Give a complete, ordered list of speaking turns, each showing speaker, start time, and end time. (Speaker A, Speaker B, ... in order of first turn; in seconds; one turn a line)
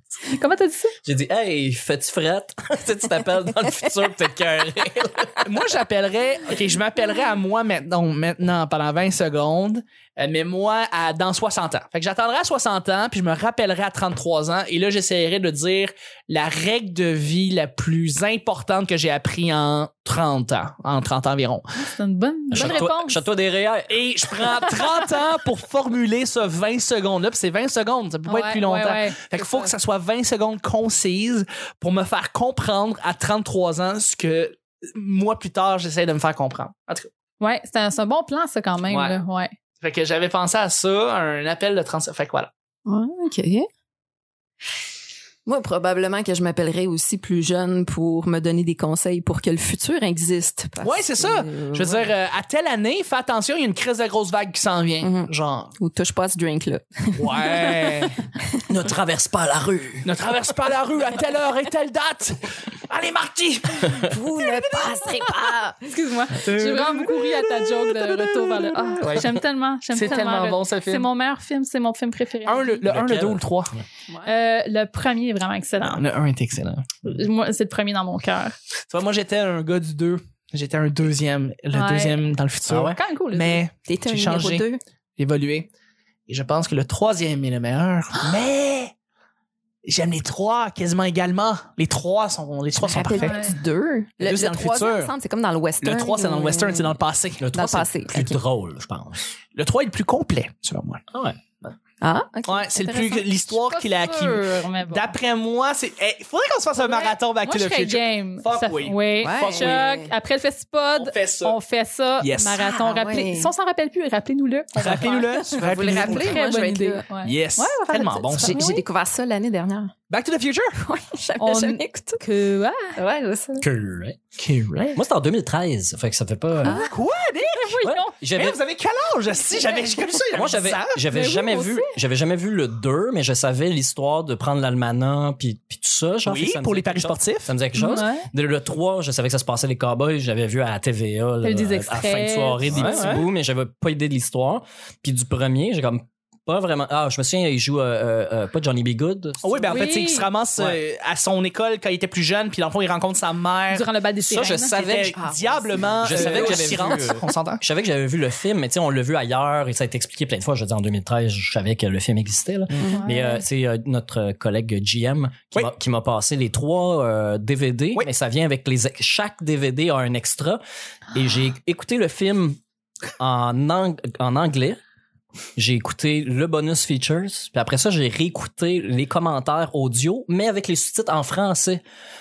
Speaker A: 0.2-0.9
Speaker B: 1.1-5.5
Speaker C: 5.4-21.6
Speaker A: 21.8-23.2
Speaker B: 22.5-24.0
Speaker C: 22.5-22.8
Speaker C: 23.9-37.1
Speaker A: 24.6-24.9
Speaker A: 28.3-29.7
Speaker A: 37.4-39.5
Speaker C: 38.9-39.2
Speaker C: 39.8-42.5
Speaker D: 42.9-43.7
Speaker D: 45.5-52.1
Speaker C: 50.8-55.7
Speaker D: 55.0-58.6
Speaker C: 57.1-58.2
Speaker B: 58.7-60.1
Speaker C: 60.0-65.6
Speaker D: 64.0-65.9
Speaker A: 65.8-72.8
Speaker C: 66.3-69.4
Speaker C: 69.9-71.1
Speaker C: 72.5-73.7
Speaker B: 72.9-73.8
Speaker A: 74.2-76.0
Speaker C: 75.8-77.0
Speaker A: 77.0-78.6
Speaker C: 78.9-84.7
Speaker A: 81.7-82.2
Speaker B: 82.7-83.0
Speaker A: 82.9-83.6
Speaker D: 83.9-84.8
Speaker C: 85.2-85.7
Speaker C: 86.3-88.9
Speaker C: 89.8-93.5
Speaker D: 92.8-97.0
Speaker A: 93.2-93.6
Speaker C: 94.2-95.1
Speaker C: 95.8-97.5
Speaker B: 97.4-99.2
Speaker D: 97.5-98.4
Speaker C: 99.5-101.0
Speaker B: 101.1-101.4
Speaker D: 102.0-103.3
Speaker C: 102.5-109.9
Speaker A: 103.6-105.1
Speaker A: 106.8-118.8
Speaker D: 109.2-110.1
Speaker C: 111.0-111.6
Speaker C: 112.2-112.7
Speaker D: 112.6-113.5
Speaker C: 114.8-116.4
Speaker D: 115.4-117.0
Speaker C: 117.2-118.7
Speaker D: 118.3-119.9
Speaker C: 120.1-120.8
Speaker D: 120.8-122.2
Speaker A: 121.4-123.0
Speaker D: 123.0-123.7
Speaker B: 123.6-124.2
Speaker C: 124.4-125.0
Speaker B: 125.0-126.8
Speaker D: 126.6-126.9
Speaker C: 126.7-131.0
Speaker A: 127.5-128.2
Speaker B: 127.8-128.6
Speaker B: 130.3-149.9
Speaker A: 131.1-131.9
Speaker C: 136.3-137.5
Speaker A: 137.8-138.3
Speaker A: 141.4-143.2
Speaker C: 142.7-143.3
Speaker C: 149.4-153.9
Speaker A: 149.7-150.3
Speaker A: 153.7-154.7
Speaker B: 154.3-155.2
Speaker C: 154.7-157.6
Speaker D: 155.1-157.0
Speaker B: 156.0-170.6
Speaker A: 162.9-163.4
Speaker B: 171.1-172.6
Speaker B: 173.2-174.8
Speaker B: 175.6-181.8